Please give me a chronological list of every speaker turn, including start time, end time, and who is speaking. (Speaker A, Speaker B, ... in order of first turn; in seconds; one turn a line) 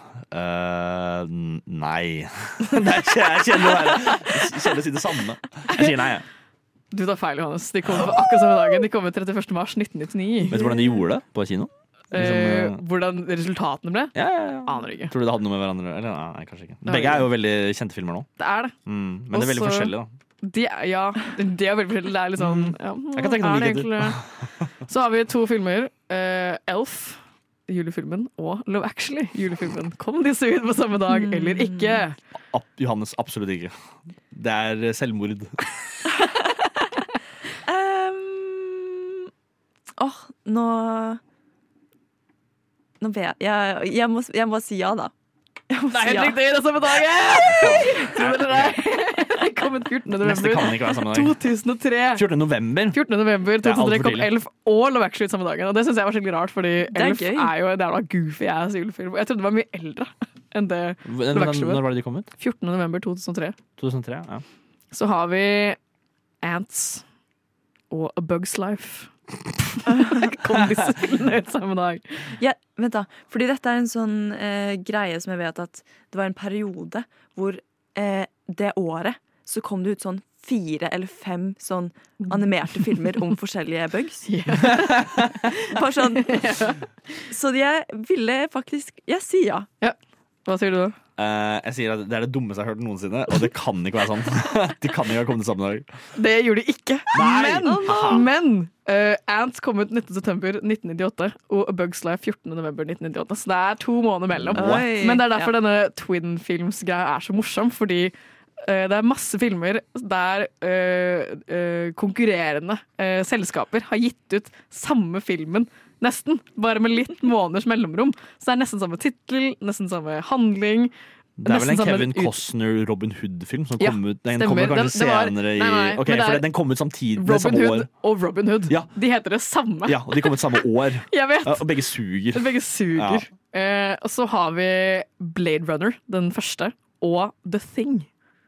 Speaker A: 0.3-6.2
Speaker B: 6.9-10.6
Speaker A: 10.5-12.8
Speaker B: 12.1-15.1
Speaker A: 14.1-18.3
Speaker B: 16.8-17.3
Speaker B: 18.4-18.7
Speaker A: 18.9-20.1
Speaker B: 19.3-24.2
Speaker A: 22.4-24.3
Speaker B: 24.8-32.1
Speaker C: 31.1-32.0
Speaker A: 32.5-33.7
Speaker A: 34.3-35.6
Speaker C: 37.6-39.2
Speaker C: 40.0-41.2
Speaker C: 43.0-45.1
Speaker C: 45.7-46.4
Speaker B: 45.9-52.2
Speaker A: 47.4-48.8
Speaker A: 50.2-51.4
Speaker A: 52.1-53.0
Speaker B: 52.9-61.8
Speaker A: 53.6-54.3
Speaker C: 56.9-57.5
Speaker A: 61.0-62.3
Speaker B: 62.3-63.5
Speaker A: 63.8-64.4
Speaker B: 64.9-65.8
Speaker B: 66.4-67.0
Speaker B: 67.9-69.1
Speaker B: 69.8-72.3
Speaker C: 72.4-84.8
Speaker B: 84.3-86.8
Speaker C: 85.7-86.4
Speaker C: 87.3-89.7
Speaker B: 89.8-91.0
Speaker A: 91.2-96.0
Speaker B: 96.1-120.9
Speaker A: 97.1-98.3
Speaker C: 97.6-98.2
Speaker A: 104.3-104.9
Speaker C: 104.5-105.5
Speaker A: 121.4-127.9
Speaker B: 121.4-122.4
Speaker B: 123.8-126.5
Speaker B: 127.1-138.1
Speaker A: 129.8-133.2